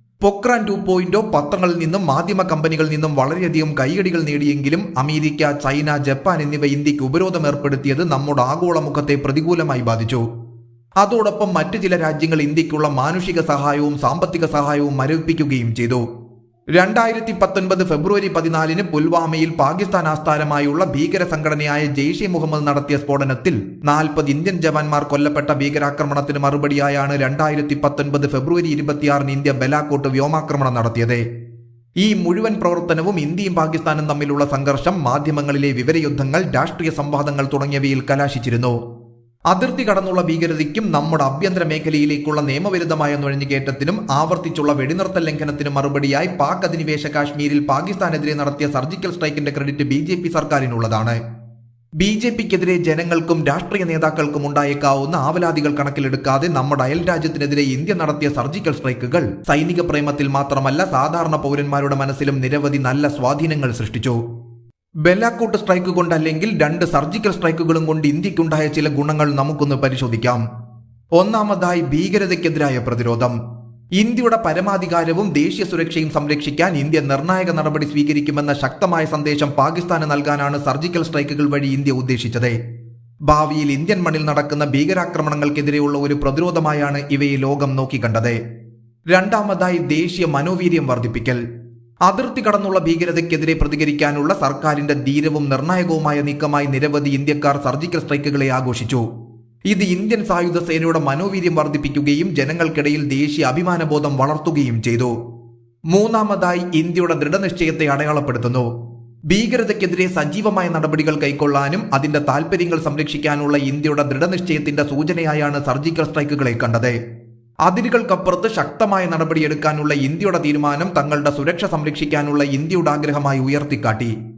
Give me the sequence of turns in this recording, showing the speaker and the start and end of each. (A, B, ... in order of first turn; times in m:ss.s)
0:00.2-0:10.2 A
0:11.0-0:16.0 A
0:16.8-0:31.2 A
0:32.0-0:38.8 A
0:39.5-0:51.2 A
0:52.0-1:04.2 A
1:05.0-1:10.4 A
1:11.2-1:13.4 A
1:14.0-1:22.6 A
1:23.3-1:28.4 A
1:29.1-1:31.4 A
1:32.0-1:39.0 A
1:39.7-1:45.1 A
1:45.9-1:48.7 A
1:49.3-1:57.0 A
1:57.6-2:04.1 A